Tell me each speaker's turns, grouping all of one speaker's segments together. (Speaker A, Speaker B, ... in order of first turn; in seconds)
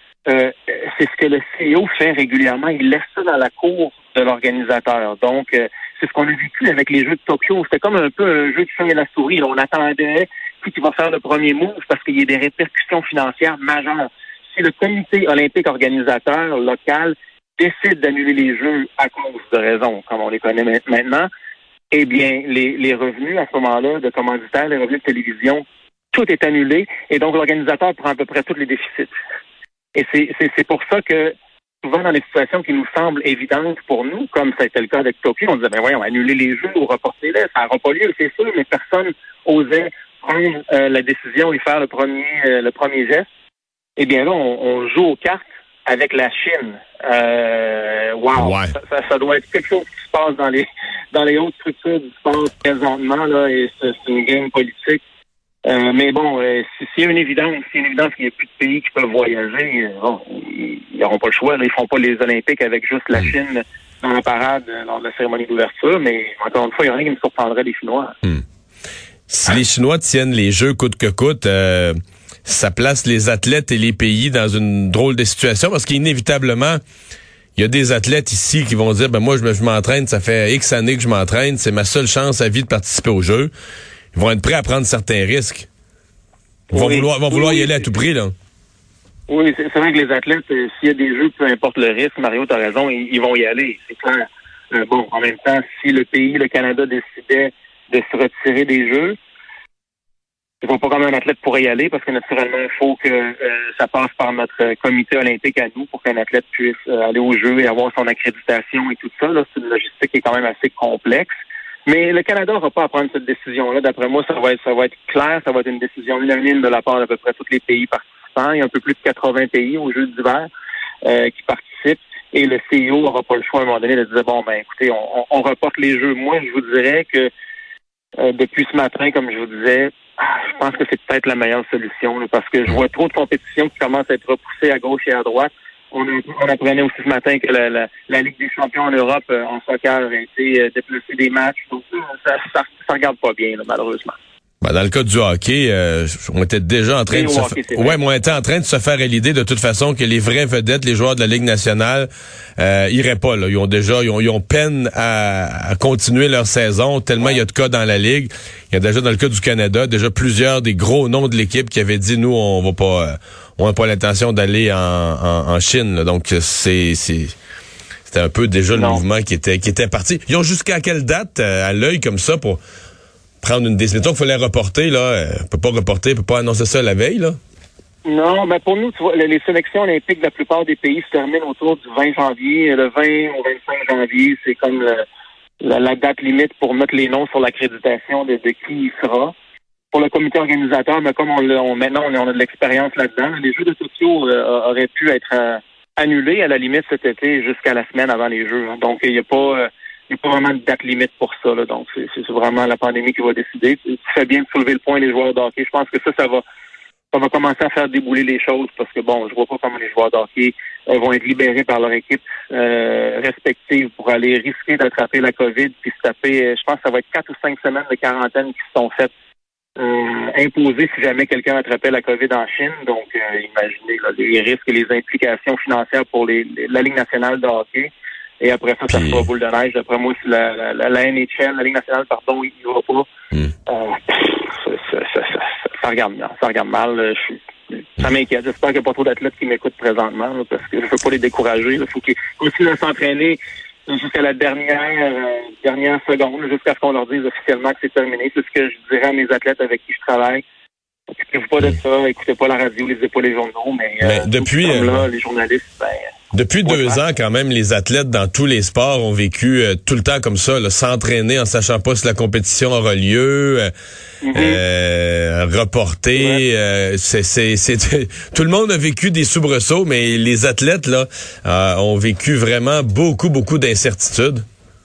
Speaker A: 0.3-21.3, 21.9-29.1, 29.9-43.2, 44.0-55.0, 55.6-68.1, 86.7-88.0, 89.3-99.2, 100.6-111.3, 111.8-120.5, 121.0-127.3, 128.2-144.2, 147.1-148.0, 168.7-169.0, 178.0-185.0, 185.6-189.3, 189.9-206.4, 207.1-219.1, 219.8-233.1, 233.7-250.4, 251.1-256.1, 256.6-257.0, 264.2-264.6, 266.1-266.4
Speaker B: 48.4-48.7, 69.3-76.8, 77.5-83.5, 84.1-85.7, 86.7-88.3, 144.6-167.3, 168.1-172.6, 173.4-177.4, 228.9-229.2, 254.0-255.0, 256.3-263.7, 264.3-274.4